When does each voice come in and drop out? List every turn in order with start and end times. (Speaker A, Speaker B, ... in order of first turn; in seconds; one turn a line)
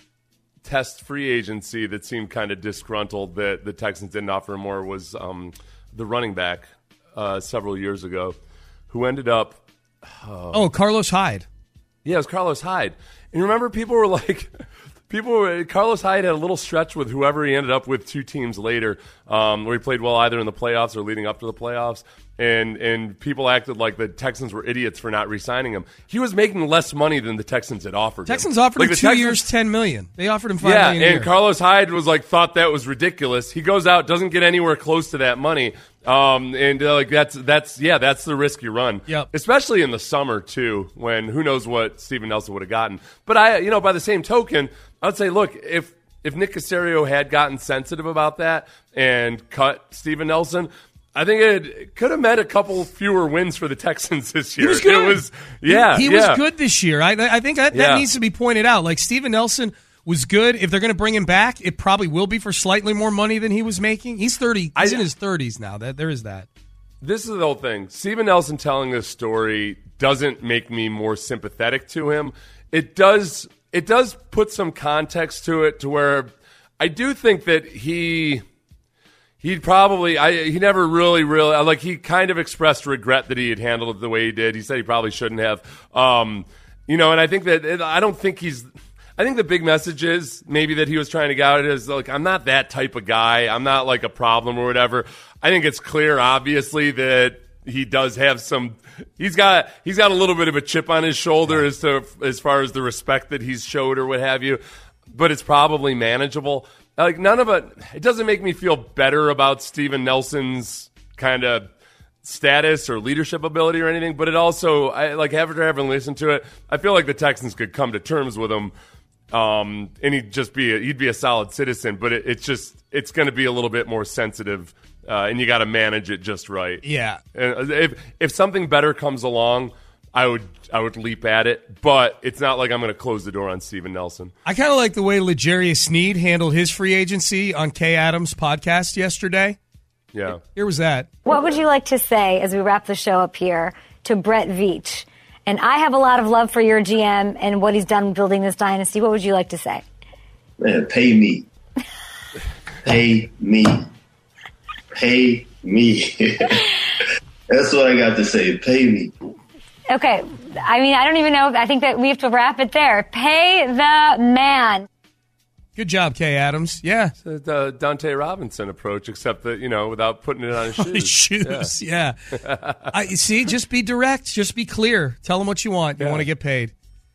Speaker A: 0.6-8.4
Speaker A: 8.9-10.7
Speaker B: 10.5-11.4
Speaker A: 12.1-14.5
Speaker A: 15.1-29.4
Speaker B: 28.3-31.3
Speaker A: 30.6-56.4
Speaker B: 54.6-66.5
Speaker A: 57.7-58.1
Speaker A: 64.8-65.0
Speaker A: 67.0-78.4
Speaker A: 79.4-111.7
Speaker A: 112.2-118.7
Speaker A: 119.3-126.8
Speaker B: 126.8-127.2
Speaker A: 127.3-134.3
Speaker B: 134.4-139.6
Speaker A: 140.1-140.4
Speaker B: 140.5-141.1
Speaker C: 141.3-149.8
Speaker D: 150.6-151.5
Speaker D: 152.8-153.9
Speaker D: 154.9-156.6
Speaker D: 157.5-159.1
Speaker C: 159.9-164.8
Speaker B: 165.8-167.1
Speaker A: 167.2-171.7
Speaker B: 170.8-172.2
Speaker A: 172.4-172.9
Speaker B: 172.9-176.7
Speaker A: 176.0-176.3